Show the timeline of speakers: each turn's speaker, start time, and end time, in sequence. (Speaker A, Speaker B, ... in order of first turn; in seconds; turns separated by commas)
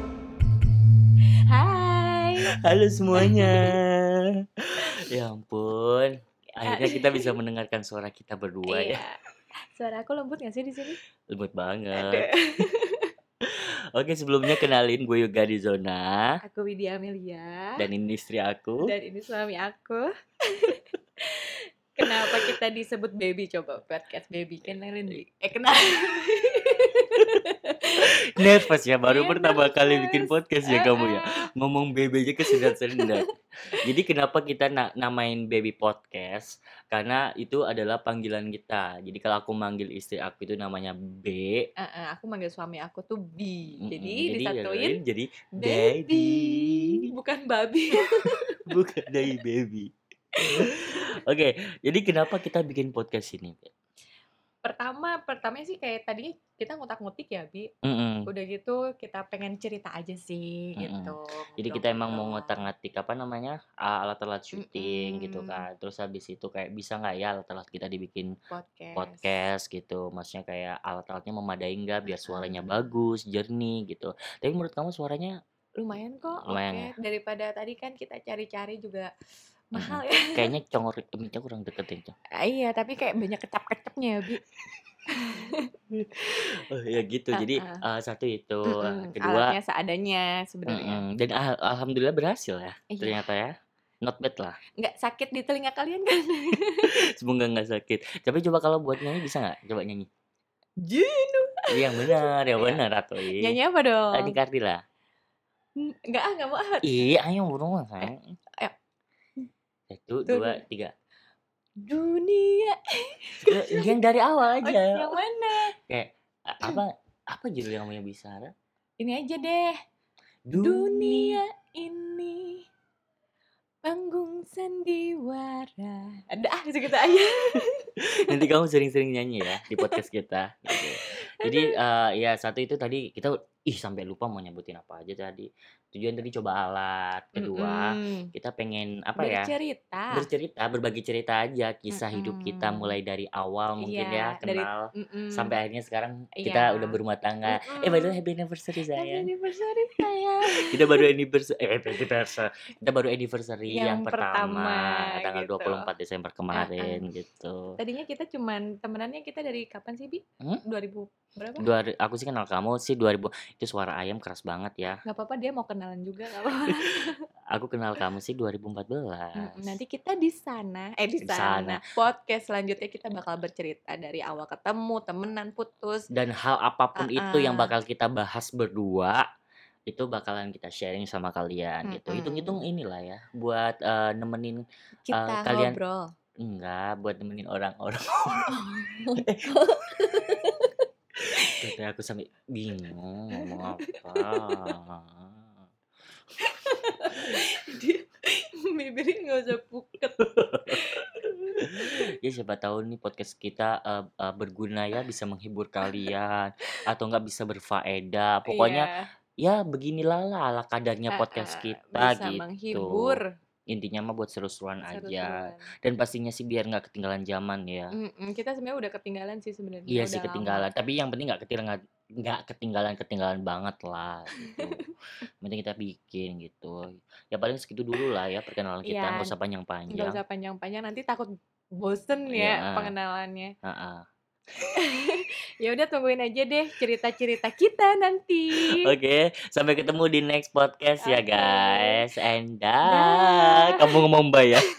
Speaker A: 1.5-2.5, Speaker B: 2.5-4.3, Speaker A: 3.2-3.8, Speaker B: 5.0-9.0, Speaker A: 6.7-7.3, Speaker A: 8.7-9.2, Speaker A: 9.8-11.0, Speaker B: 11.3-12.3, Speaker A: 11.9-13.1, Speaker B: 13.4-16.4, Speaker A: 16.4-17.8, Speaker B: 17.8-18.9, Speaker A: 18.8-31.3, Speaker B: 24.6-25.2, Speaker B: 28.3-33.3, Speaker A: 32.5-33.1, Speaker B: 33.8-41.7, Speaker A: 41.8-45.0, Speaker B: 43.8-47.1, Speaker A: 45.6-48.6, Speaker B: 48.7-49.9, Speaker A: 50.5-51.0, Speaker B: 50.5-53.7, Speaker A: 54.6-57.7, Speaker B: 57.8-58.3, Speaker A: 58.3-62.7, Speaker B: 60.8-68.3, Speaker A: 64.5-65.7, Speaker A: 68.5-69.3, Speaker B: 69.0-75.3, Speaker A: 72.2-72.8, Speaker A: 75.8-79.1, Speaker B: 76.5-76.9, Speaker A: 79.7-80.4, Speaker B: 79.8-82.1, Speaker A: 82.4-84.4, Speaker A: 85.1-85.7, Speaker B: 85.9-89.6, Speaker A: 87.3-87.8, Speaker A: 88.7-91.0, Speaker B: 90.7-94.6, Speaker A: 92.9-93.2, Speaker A: 94.8-97.0, Speaker B: 96.9-100.1, Speaker A: 100.8-104.4, Speaker B: 101.7-103.6, Speaker B: 104.1-104.8, Speaker A: 105.8-107.0, Speaker B: 106.8-108.3, Speaker A: 108.0-108.7, Speaker B: 109.9-110.9, Speaker A: 110.3-110.6, Speaker A: 111.8-113.9, Speaker B: 113.5-115.1, Speaker A: 114.6-115.7, Speaker B: 115.9-118.5, Speaker A: 119.0-119.8, Speaker B: 120.5-121.4, Speaker A: 120.5-122.7, Speaker A: 123.8-128.4, Speaker B: 128.0-139.5, Speaker A: 131.4-131.8, Speaker A: 137.4-138.3, Speaker A: 139.2-140.3, Speaker B: 140.1-149.3, Speaker A: 141.9-142.9, Speaker A: 143.8-145.6, Speaker A: 146.4-148.2, Speaker A: 148.9-151.1, Speaker B: 150.7-157.8, Speaker A: 153.7-155.9, Speaker A: 156.5-157.0, Speaker A: 157.8-161.7, Speaker B: 161.6-165.0, Speaker A: 165.1-167.2, Speaker B: 167.5-169.8, Speaker A: 169.4-176.1, Speaker B: 171.2-171.8, Speaker B: 176.1-179.2, Speaker A: 177.0-177.7, Speaker B: 179.9-185.8, Speaker A: 181.8-182.6, Speaker A: 185.1-186.1, Speaker B: 186.4-188.6, Speaker A: 188.3-190.7, Speaker B: 189.2-189.5, Speaker A: 191.3-191.5, Speaker B: 191.5-195.4, Speaker A: 193.4-194.8, Speaker A: 196.4-202.0, Speaker B: 200.2-200.8, Speaker B: 201.6-208.9, Speaker A: 208.5-209.1, Speaker B: 209.4-217.9, Speaker A: 211.1-213.3, Speaker A: 214.9-215.7, Speaker A: 217.9-220.7, Speaker B: 219.9-224.8, Speaker A: 224.5-224.9, Speaker B: 225.4-230.2, Speaker A: 228.9-229.3, Speaker A: 229.9-233.5, Speaker B: 232.3-232.9, Speaker B: 233.6-234.0, Speaker A: 234.8-238.9, Speaker B: 238.6-244.7, Speaker A: 241.0-242.0, Speaker A: 242.9-244.0